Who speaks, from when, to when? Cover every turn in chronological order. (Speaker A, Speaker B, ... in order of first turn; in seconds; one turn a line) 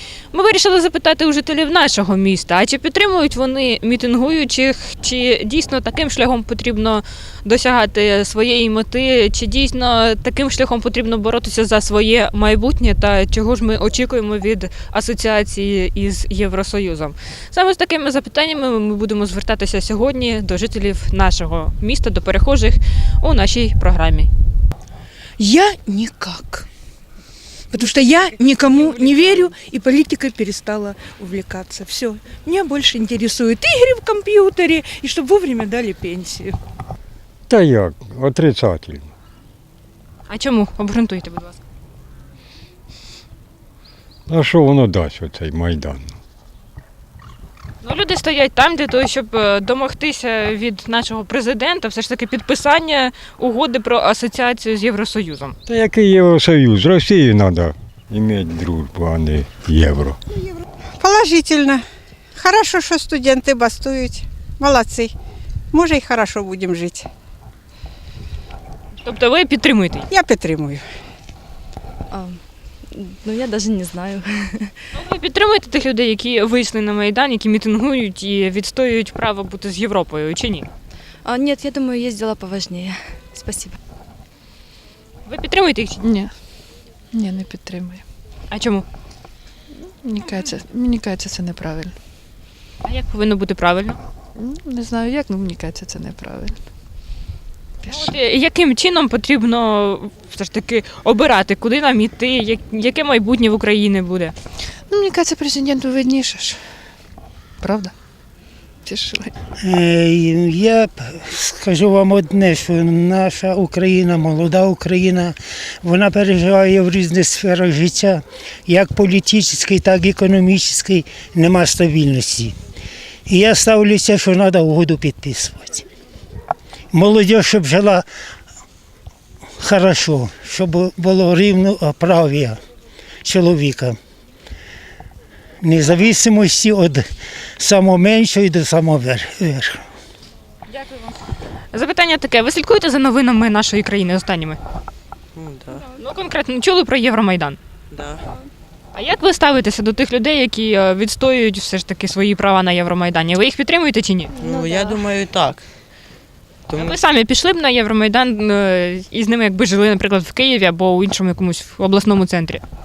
Speaker A: 0.3-24.3
Speaker B: 25.4-26.7
Speaker B: 27.7-36.6
Speaker C: 37.5-39.1
Speaker A: 40.3-41.6
Speaker C: 44.3-46.1
Speaker A: 47.8-55.6
Speaker C: 55.7-60.2
Speaker D: 61.0-61.8
Speaker D: 62.4-65.1
Speaker D: 65.7-67.1
Speaker A: 69.0-70.1
Speaker D: 70.1-70.8
Speaker E: 72.1-74.8
Speaker A: 74.9-80.7
Speaker E: 81.2-83.8
Speaker A: 85.3-86.0
Speaker F: 86.0-86.3
Speaker F: 87.1-88.0
Speaker A: 88.5-88.9
Speaker F: 90.0-92.0
Speaker A: 92.8-94.0
Speaker F: 94.4-96.6
Speaker F: 97.8-98.1
Speaker A: 97.9-104.3
Speaker F: 104.9-106.6
Speaker F: 107.6-107.9
Speaker F: 108.8-109.3
Speaker G: 109.6-122.5
Speaker G: 123.3-125.8
Speaker G: 126.9-128.1
Speaker G: 129.6-132.6
Speaker G: 133.2-134.0
Speaker G: 135.6-137.1
Speaker G: 137.6-139.8
Speaker A: 140.7-141.2
Speaker A: 141.7-144.6
Speaker H: 145.3-145.8
Speaker A: 145.8-147.6
Speaker H: 147.9-148.2
Speaker A: 148.9-154.3
Speaker H: 154.4-155.7
Speaker H: 156.7-157.0
Speaker A: 156.7-162.6